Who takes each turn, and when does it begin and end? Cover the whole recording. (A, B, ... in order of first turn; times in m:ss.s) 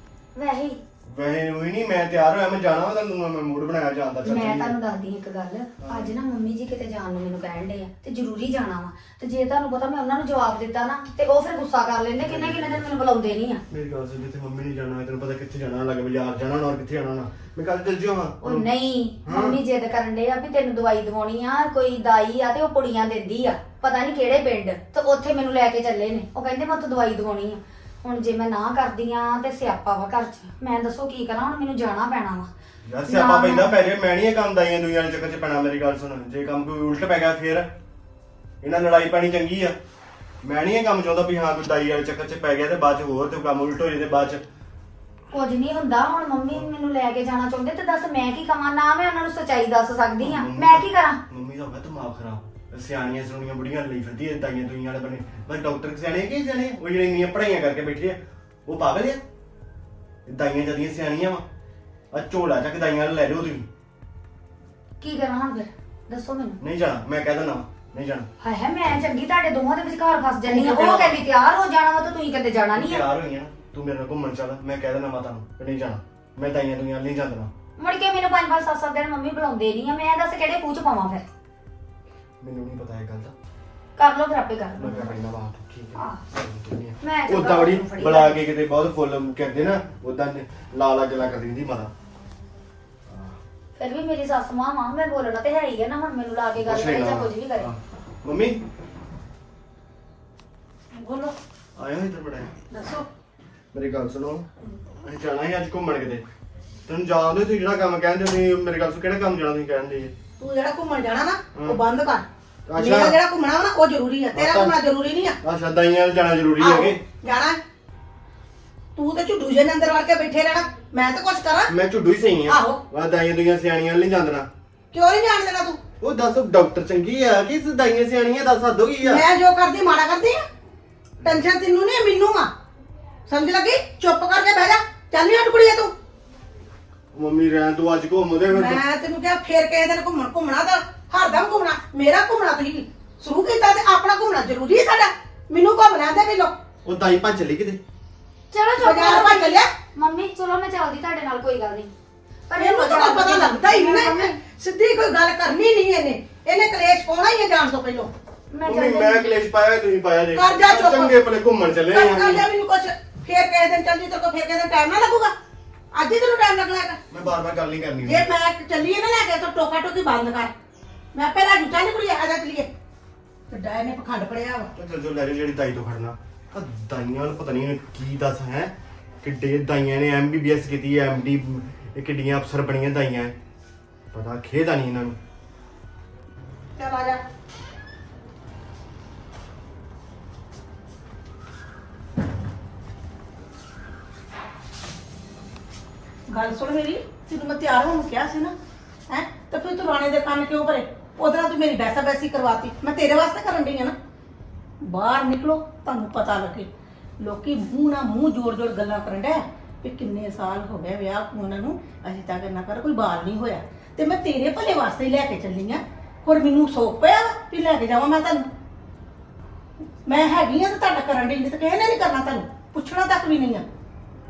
0:00.3-0:00.8 A
0:01.1-0:04.8 B
0:04.2-0:13.6 A
0:05.8-0:06.1 B
0:12.2-0:12.8 B
0:13.7-0:18.7 B
0:18.4-0:32.5 A
0:19.2-0:19.6 B
0:32.8-0:37.7 B
0:33.1-0:33.7 A
0:38.6-0:39.8 B
0:40.4-0:44.4 B
0:45.3-0:51.2 A
0:50.2-0:59.2 B
1:00.2-1:01.4 B
1:02.1-1:03.7 B
1:05.0-1:06.6 A
1:06.6-1:08.3 B
1:08.4-1:13.0 A
1:10.4-1:11.2 B
1:12.7-1:17.5 B
1:17.8-1:21.2 A
1:22.4-1:23.3 B
1:24.0-1:25.2 A
1:24.7-1:31.9 B
1:27.0-1:28.4 A
1:33.1-1:33.4 B
1:33.8-1:37.7 A
1:36.6-1:38.6 B
1:40.9-1:41.4 C
1:41.8-1:42.5 B
1:42.7-1:43.1 C
1:43.7-1:44.5 B
1:45.0-1:46.2 B
1:46.9-1:50.1 B
1:50.4-1:52.2 C
1:51.5-1:51.8 B
1:52.7-1:53.2 B
1:52.8-1:55.4 C
1:54.3-1:54.8 B
1:55.4-1:57.0 B
1:56.6-1:57.6 C
1:58.9-2:01.7 C
2:01.7-2:04.5 B
2:02.5-2:02.8 C
2:04.9-2:05.8 C
2:06.0-2:09.2 B
2:09.1-2:10.4 C
2:11.3-2:12.5 C
2:13.3-2:15.9 C
2:17.1-2:18.8 B
2:18.5-2:26.5 C
2:26.8-2:27.8 B
2:28.5-2:31.9 A
2:28.8-2:29.7 C
2:32.5-2:34.3 A
2:32.6-2:38.1 C
2:38.5-2:39.4 A
2:38.6-2:42.4 B
2:40.3-2:41.1 C
2:41.9-2:45.3 C
2:45.9-2:47.0 C
2:47.1-2:48.3 B
2:48.0-2:50.5 C
2:51.1-2:52.7 C
2:53.5-2:54.7 C
2:54.7-3:03.4 B
3:04.1-3:05.2 B
3:06.8-3:07.2 C
3:16.3-3:18.5 C
3:19.1-3:23.9 C
3:24.8-3:26.7 C
3:27.2-3:38.5 C
3:40.1-3:43.6 C